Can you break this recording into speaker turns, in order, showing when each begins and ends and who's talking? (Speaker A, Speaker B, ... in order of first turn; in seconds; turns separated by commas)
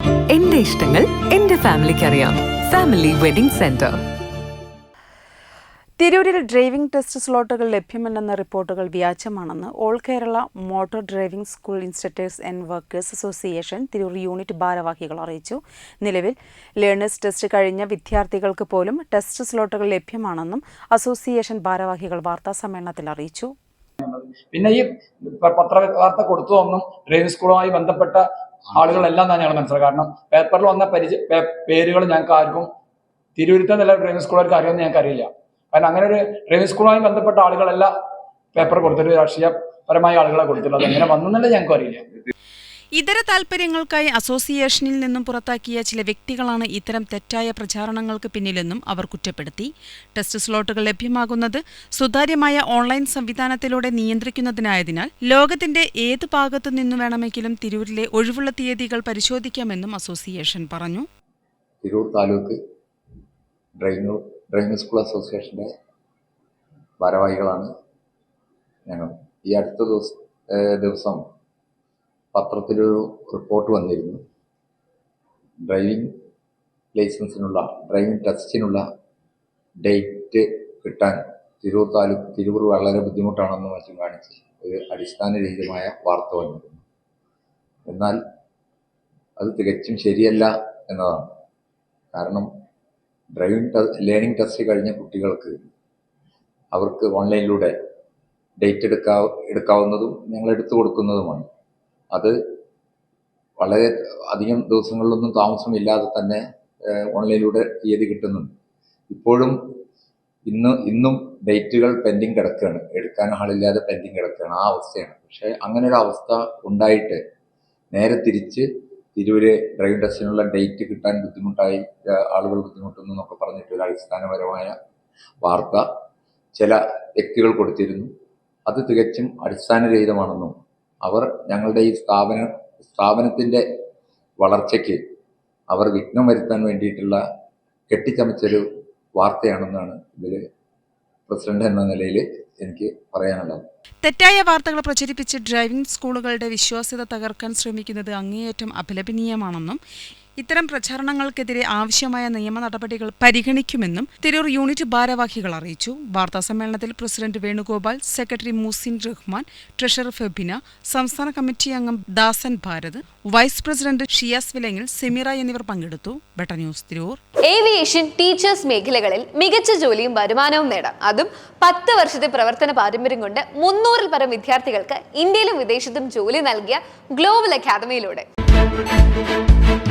Speaker A: 0.3-4.0, Speaker B: 6.0-23.5, Speaker C: 24.1-24.7, Speaker C: 25.4-28.2, Speaker C: 28.8-31.1, Speaker C: 31.7-32.5, Speaker C: 33.6-35.2, Speaker C: 35.8-37.8, Speaker C: 38.6-42.0, Speaker B: 42.9-61.0, Speaker D: 61.8-62.6, Speaker D: 63.8-65.7, Speaker D: 67.0-67.7, Speaker D: 68.9-71.2, Speaker D: 72.3-74.2, Speaker D: 75.6-76.1, Speaker D: 76.9-78.8, Speaker D: 79.8-86.8, Speaker D: 87.9-88.2, Speaker D: 89.4-91.3, Speaker D: 92.1-92.5, Speaker D: 93.3-95.6, Speaker D: 96.7-97.7, Speaker D: 98.6-101.5, Speaker D: 103.6-108.5, Speaker D: 109.1-109.5, Speaker D: 110.5-117.2, Speaker D: 117.9-124.8, Speaker D: 125.4-125.8, Speaker D: 126.5-128.1, Speaker D: 128.7-133.6, Speaker D: 134.4-135.0, Speaker D: 135.7-137.2, Speaker D: 137.9-138.6, Speaker D: 139.2-140.4, Speaker D: 141.3-143.6, Speaker B: 144.0-149.8, Speaker B: 150.4-167.2, Speaker E: 167.5-178.2